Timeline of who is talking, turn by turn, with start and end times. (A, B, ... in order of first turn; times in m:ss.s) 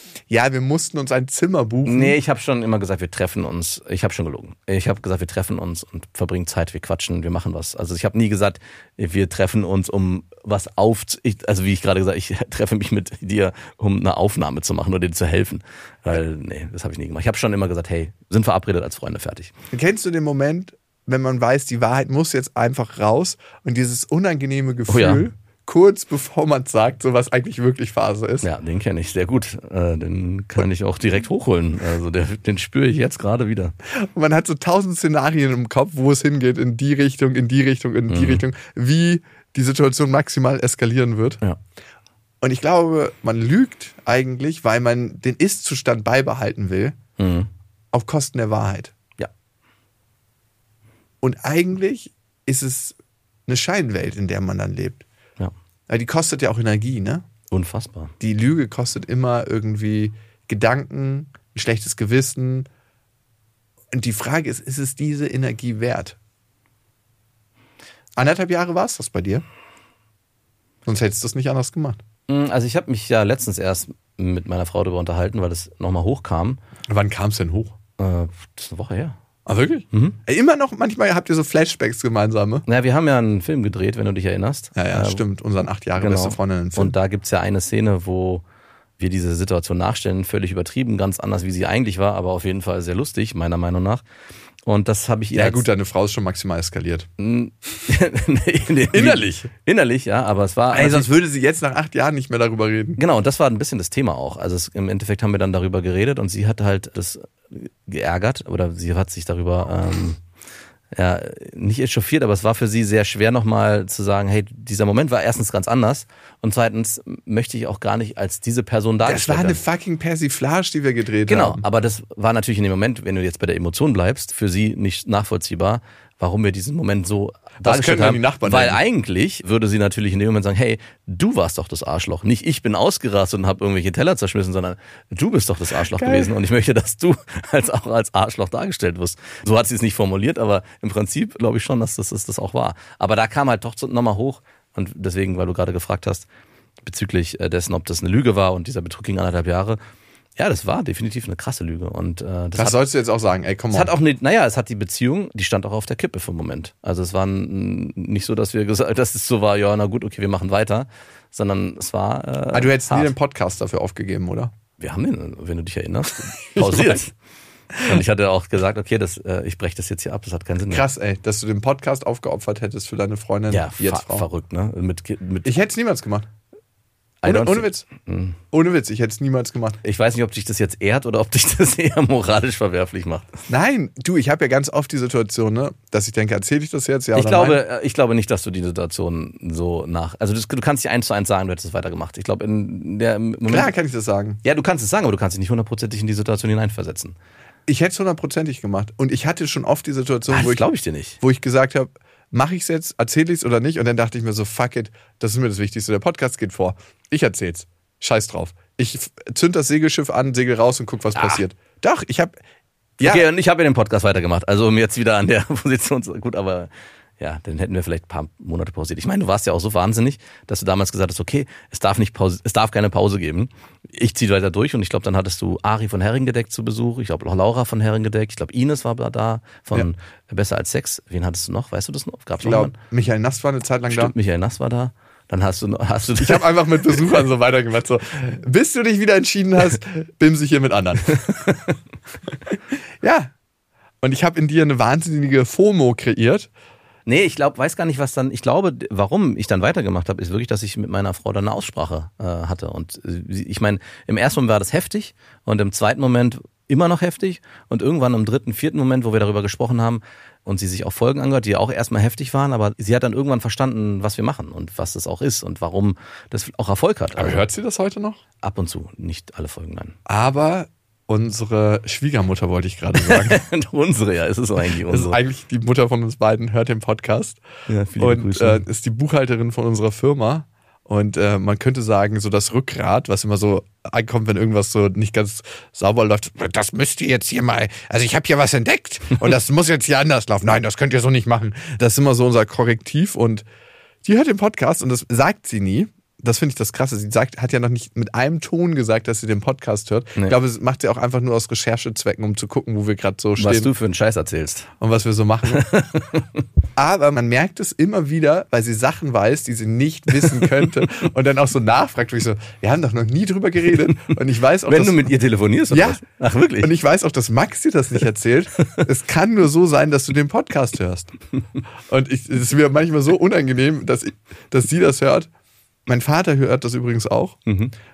0:00.3-0:02.2 A
0:01.9-0:19.5 B
0:19.7-0:28.5 A
0:24.9-0:25.3 B
0:28.4-0:33.8 B
0:33.9-0:41.4 A
0:38.1-0:38.4 B
0:42.4-0:47.0 A
0:47.2-0:47.5 B
0:47.9-0:48.9 A
0:51.2-0:55.0 A
0:55.9-0:57.3 A
0:57.5-0:58.1 B
0:58.2-1:02.7 A
1:03.9-1:06.2 A
1:08.2-1:09.4 A
1:10.9-1:12.0 A
1:12.3-1:16.6 B
1:16.9-1:17.8 A
1:18.0-1:19.2 B
1:19.5-1:22.6 A
1:19.9-1:20.2 B
1:22.7-1:25.2 B
1:24.8-1:27.0 A
1:26.0-1:28.4 B
1:29.0-1:34.0 B
1:34.6-1:35.6 B
1:35.3-1:37.1 A
1:37.2-1:41.1 B
1:38.9-1:39.5 A
1:40.7-1:43.0 A
1:43.0-1:50.2 B
1:50.9-1:59.6 B
1:59.0-2:01.6 A
2:01.3-2:26.3 B
2:07.6-2:08.8 A
2:15.8-2:16.3 A
2:26.8-2:29.8 B
2:30.4-2:32.8 B
2:32.6-2:33.9 A
2:33.7-2:43.1 B
2:42.5-2:44.5 A
2:44.8-2:47.1 B
2:46.6-2:47.0 A
2:47.8-2:50.8 B
2:50.7-2:54.3 A
2:53.5-2:55.5 B
2:55.4-2:56.3 A
2:57.2-2:58.4 B
2:57.2-2:57.9 A
2:58.5-2:59.8 A
2:59.8-3:03.3 B
3:03.5-3:07.6 A
3:07.1-3:13.7 B
3:13.5-3:14.4 A
3:14.4-3:17.2 B
3:17.7-3:20.6 A
3:20.3-3:21.2 B
3:21.2-3:32.4 A
3:31.2-3:31.4 B
3:33.0-3:33.3 A
3:33.0-3:52.7 B
3:52.4-3:54.1 A
3:53.9-3:57.0 B
3:56.2-4:01.6 A
4:02.5-4:03.3 A
4:04.0-4:06.5 A
4:07.1-4:27.4 B
4:27.2-4:28.2 A
4:28.4-4:30.0 B
4:30.1-4:33.4 A
4:33.0-4:35.2 B
4:34.9-4:37.4 A
4:37.7-4:38.6 B
4:38.0-4:53.5 A
4:54.0-5:03.7 A
5:03.4-5:04.7 B
5:04.8-5:05.7 A
5:05.5-5:06.4 B
5:06.8-5:15.1 A
5:14.7-5:16.7 B
5:15.7-5:16.0 A
5:16.6-5:21.1 A
5:21.9-5:25.3 A
5:25.9-5:27.4 A
5:27.5-5:27.7 B